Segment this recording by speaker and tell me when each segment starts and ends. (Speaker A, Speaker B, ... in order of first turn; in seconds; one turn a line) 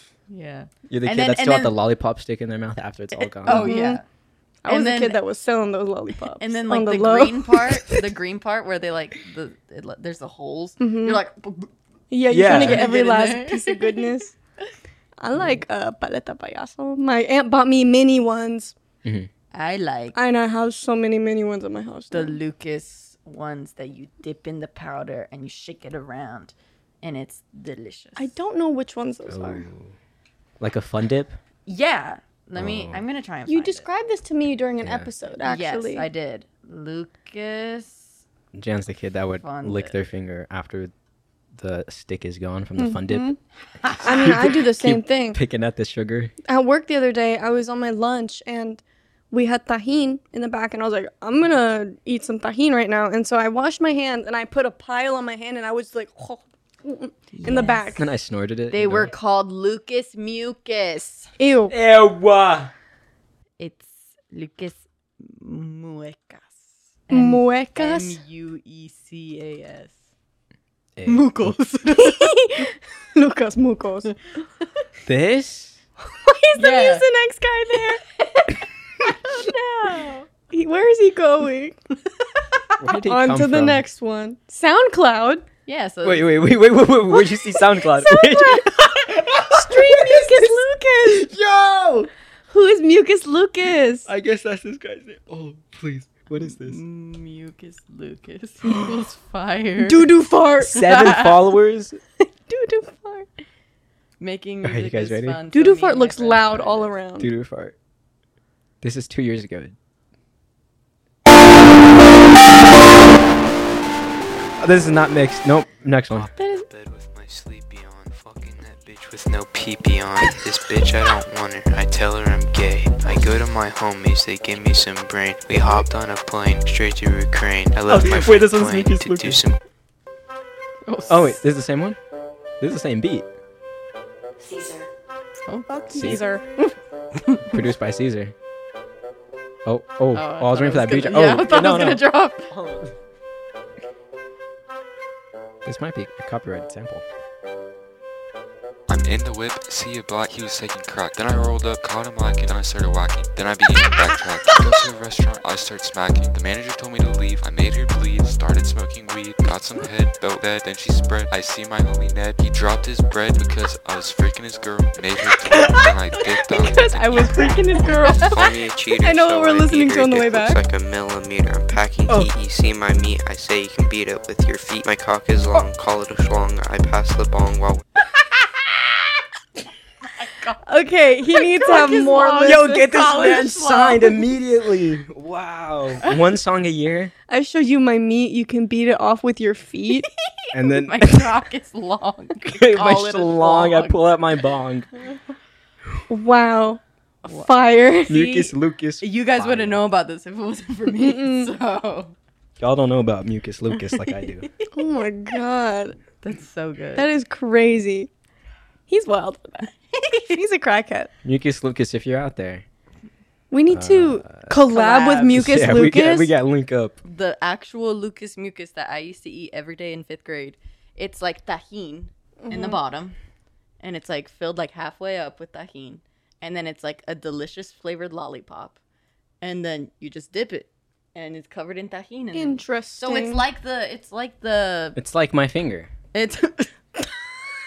Speaker A: 0.3-1.8
Speaker B: 0.9-3.8
Speaker A: 3.4-4.0
Speaker C: 3.5-4.0
Speaker C: 4.6-8.0
Speaker A: 4.7-5.2
Speaker A: 6.4-11.7
Speaker C: 10.8-11.2
Speaker C: 12.1-14.3
Speaker B: 12.3-12.9
Speaker A: 12.3-14.2
Speaker C: 15.2-18.7
Speaker B: 19.0-19.3
Speaker A: 19.5-20.2
Speaker C: 20.1-22.4
Speaker A: 22.1-28.3
Speaker C: 28.2-29.6
Speaker B: 29.3-29.9
Speaker B: 30.6-31.4
Speaker A: 31.6-33.9
Speaker B: 32.5-33.0
Speaker C: 33.5-36.1
Speaker B: 34.8-35.1
Speaker A: 35.4-38.2
Speaker B: 38.5-40.9
Speaker A: 39.4-40.0
Speaker B: 41.5-43.3
Speaker C: 42.8-43.4
Speaker A: 43.8-44.4
Speaker C: 44.0-45.4
Speaker B: 44.0-46.3
Speaker C: 46.5-58.1
Speaker A: 57.3-57.9
Speaker B: 58.0-59.1
Speaker A: 58.7-61.3
Speaker C: 61.4-61.7
Speaker B: 61.7-62.7
Speaker A: 63.6-70.0
Speaker C: 67.1-68.2
Speaker B: 71.0-71.5
Speaker A: 71.0-72.4
Speaker C: 72.0-74.1
Speaker B: 75.0-75.8
Speaker C: 76.2-82.0
Speaker A: 76.5-77.1
Speaker B: 82.8-83.8
Speaker C: 82.9-85.5
Speaker A: 85.7-86.4
Speaker B: 86.0-90.5
Speaker C: 87.8-88.7
Speaker C: 89.2-91.3
Speaker B: 91.1-92.1
Speaker C: 92.5-94.1
Speaker B: 94.0-96.8
Speaker A: 96.4-100.1
Speaker C: 99.8-101.0
Speaker B: 100.6-102.0
Speaker A: 100.7-101.4
Speaker C: 102.5-103.3
Speaker A: 104.2-106.9
Speaker B: 104.6-105.4
Speaker C: 105.5-107.3
Speaker B: 107.2-107.7
Speaker B: 108.8-109.7
Speaker B: 114.6-116.3
Speaker D: 116.1-129.6
Speaker C: 116.4-116.6
Speaker B: 125.6-125.8
Speaker B: 127.9-129.4
Speaker A: 130.8-131.4
Speaker B: 131.1-132.0
Speaker B: 132.6-133.3
Speaker A: 135.4-136.1
Speaker C: 135.7-136.6
Speaker B: 135.9-136.2
Speaker A: 137.2-137.5
Speaker B: 137.4-138.3
Speaker B: 139.6-142.9
Speaker A: 140.1-142.5
Speaker B: 145.6-147.0
Speaker E: 148.9-167.6
Speaker B: 165.5-165.9
Speaker C: 166.5-170.6
Speaker D: 167.9-177.8
Speaker A: 180.0-180.7
Speaker C: 180.7-182.9
Speaker A: 181.3-184.2
Speaker B: 182.4-187.1
Speaker C: 187.3-190.1
Speaker A: 190.2-194.1
Speaker B: 190.5-191.4
Speaker B: 192.4-194.9
Speaker C: 196.1-198.5
Speaker B: 198.1-199.8
Speaker A: 199.0-202.1
Speaker C: 201.0-201.5
Speaker B: 202.6-204.5
Speaker A: 203.8-204.7
Speaker C: 204.7-206.0
Speaker A: 206.2-207.1
Speaker C: 206.9-208.1
Speaker C: 208.9-211.1
Speaker A: 209.9-210.3
Speaker B: 211.2-212.6
Speaker C: 213.5-216.3
Speaker B: 213.7-214.6
Speaker A: 214.7-215.4
Speaker B: 215.2-217.0
Speaker A: 217.0-223.2
Speaker C: 222.4-222.8
Speaker A: 223.8-228.8
Speaker A: 229.4-235.0
Speaker C: 232.3-233.4
Speaker B: 234.9-235.9
Speaker A: 236.1-236.7